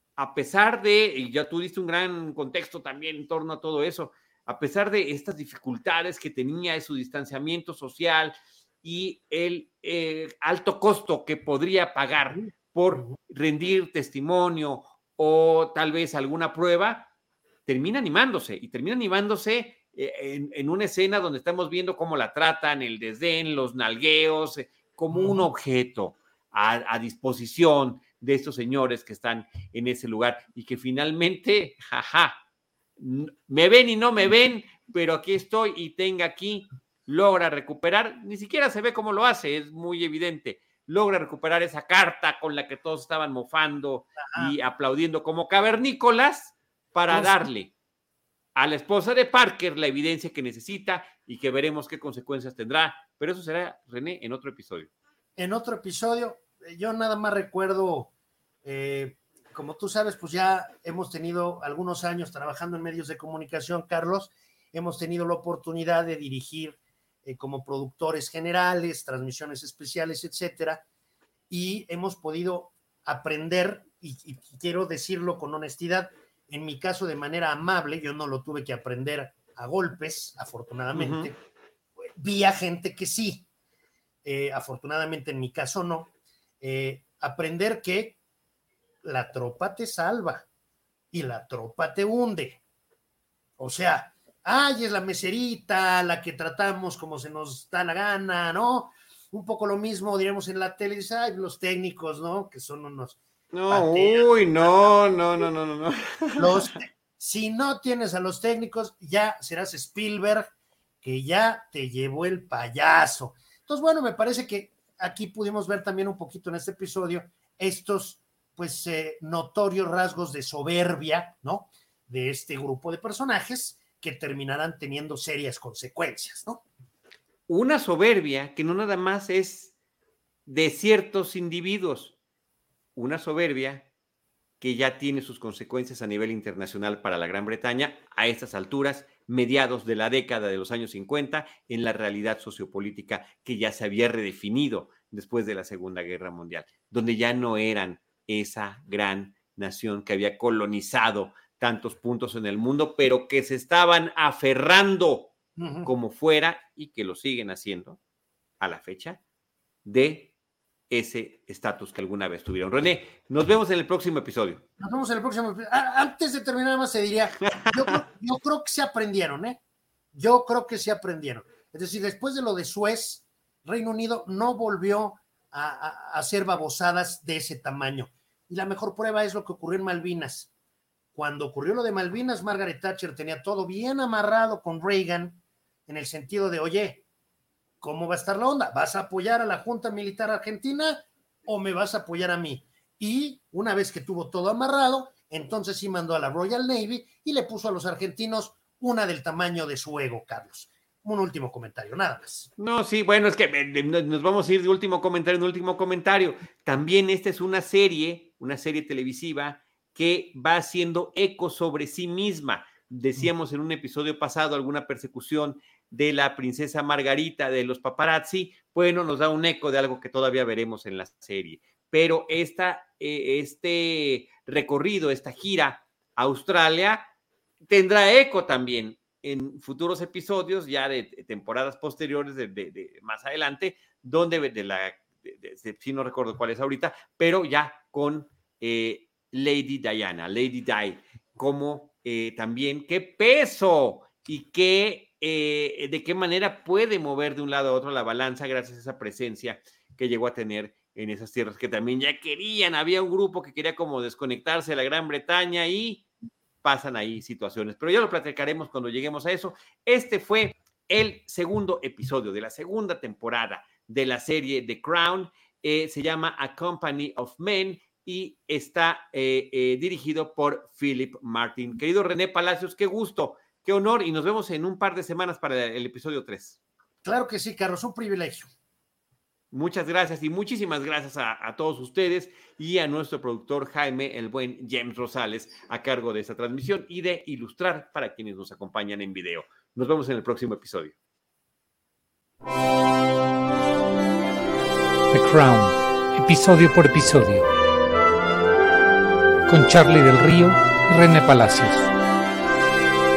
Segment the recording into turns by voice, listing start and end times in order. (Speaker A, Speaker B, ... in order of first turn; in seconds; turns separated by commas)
Speaker A: 0.2-17.1, Speaker B: 12.3-13.2, Speaker A: 17.6-32.4, Speaker B: 25.1-25.5, Speaker A: 33.0-47.7, Speaker B: 44.3-44.5, Speaker B: 47.1-47.5, Speaker A: 48.5-54.9, Speaker B: 55.4-58.1, Speaker B: 58.6-70.8, Speaker B: 71.5-81.3, Speaker A: 80.9-81.3, Speaker B: 82.0-83.4, Speaker B: 84.2-88.2, Speaker B: 89.0-90.5, Speaker B: 91.1-92.6, Speaker B: 93.6-103.2, Speaker A: 103.5-106.7, Speaker B: 103.7-105.0, Speaker B: 106.4-110.5, Speaker B: 111.0-126.6, Speaker A: 127.5-129.7, Speaker A: 130.5-132.2, Speaker A: 132.9-133.9, Speaker A: 134.6-155.3, Speaker B: 155.6-155.9, Speaker A: 155.8-158.0, Speaker A: 158.6-159.2, Speaker A: 159.8-160.3, Speaker A: 160.9-164.6, Speaker B: 164.8-169.6, Speaker A: 167.5-168.0, Speaker B: 170.1-180.5, Speaker B: 181.1-187.0, Speaker B: 187.8-202.5, Speaker A: 202.6-227.1, Speaker A: 227.7-256.1, Speaker A: 256.6-276.6, Speaker B: 277.0-278.5, Speaker A: 279.5-290.9, Speaker C: 295.1-297.5, Speaker C: 299.5-301.9